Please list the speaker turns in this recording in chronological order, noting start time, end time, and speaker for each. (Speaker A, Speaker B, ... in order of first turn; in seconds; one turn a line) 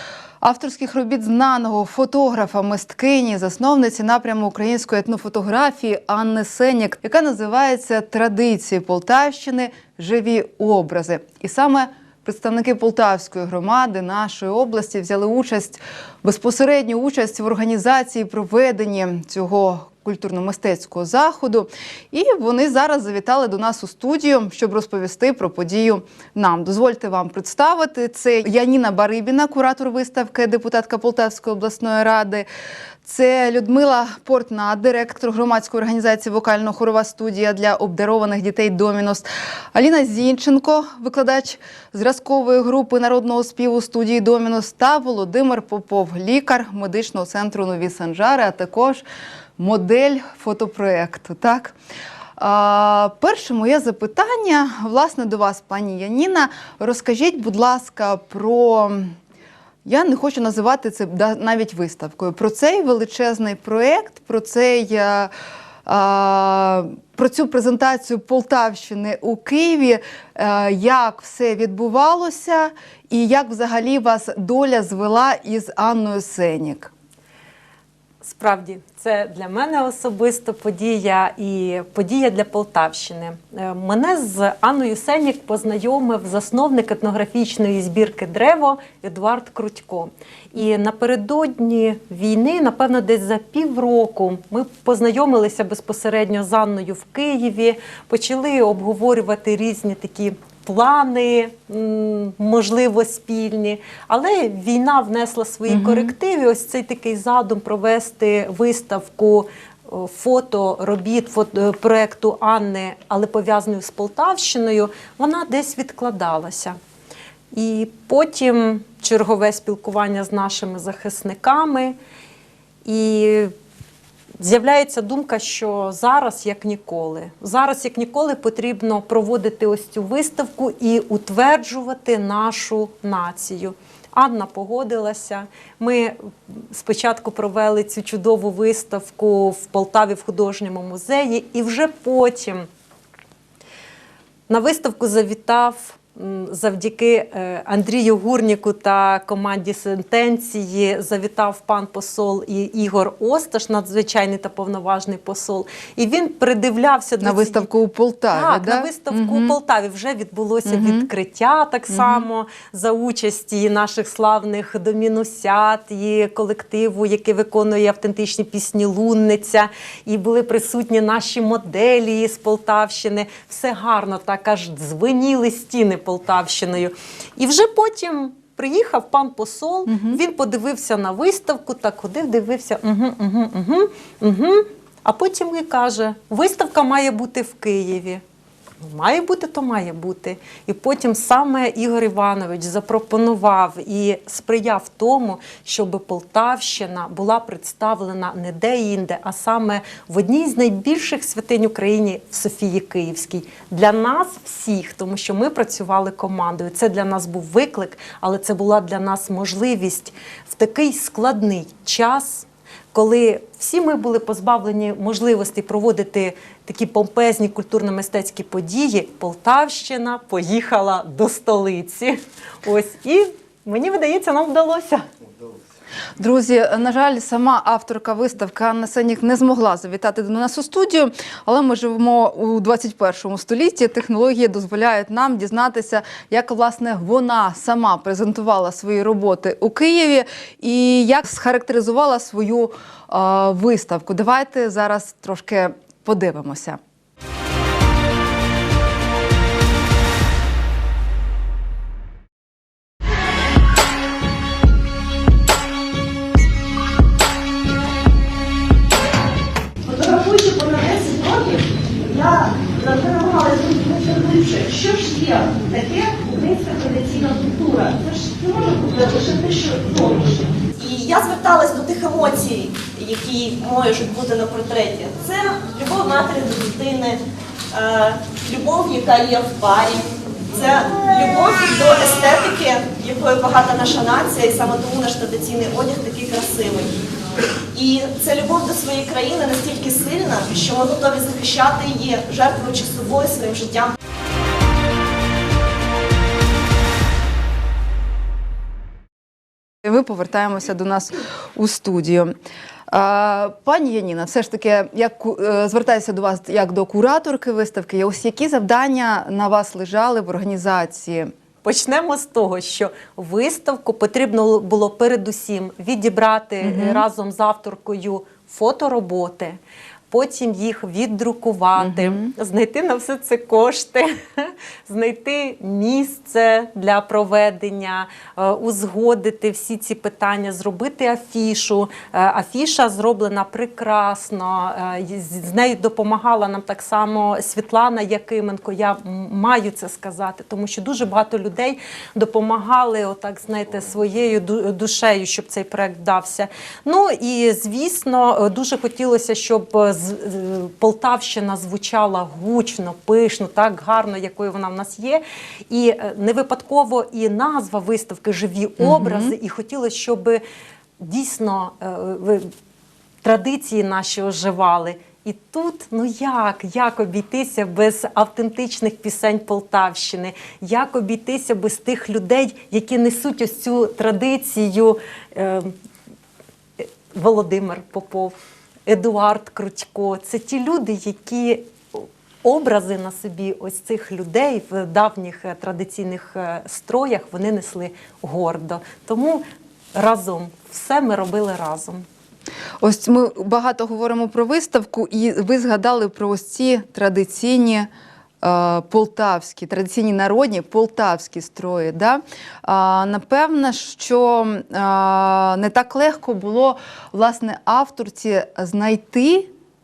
Speaker A: 0.4-32.5
Speaker A: 33.0-49.0
Speaker A: 49.6-51.7
Speaker A: 52.4-59.1
Speaker A: 59.8-65.3
Speaker A: 65.8-76.9
Speaker B: 78.2-116.8
Speaker A: 105.7-106.1
Speaker B: 117.5-122.0
Speaker B: 122.8-123.5
Speaker B: 124.4-142.7
Speaker B: 144.5-157.7
Speaker A: 157.2-159.6
Speaker B: 158.3-188.2
Speaker A: 160.7-161.1
Speaker A: 161.9-162.2
Speaker A: 179.9-180.2
Speaker B: 188.8-225.1
Speaker A: 226.2-246.8
Speaker C: 259.9-277.2
Speaker C: 277.7-287.0
Speaker C: 287.7-293.9
Speaker A: 299.8-302.3
Speaker A: 302.9-311.3
Speaker B: 311.6-319.6
Speaker A: 316.6-317.0
Speaker B: 320.1-360.4
Speaker A: 321.8-322.3
Speaker A: 358.8-359.3
Speaker B: 361.0-362.5
Speaker B: 363.2-375.7
Speaker B: 376.8-378.3
Speaker B: 378.9-389.4
Speaker B: 389.9-392.1
Speaker A: 392.8-397.9
Speaker A: 398.4-409.5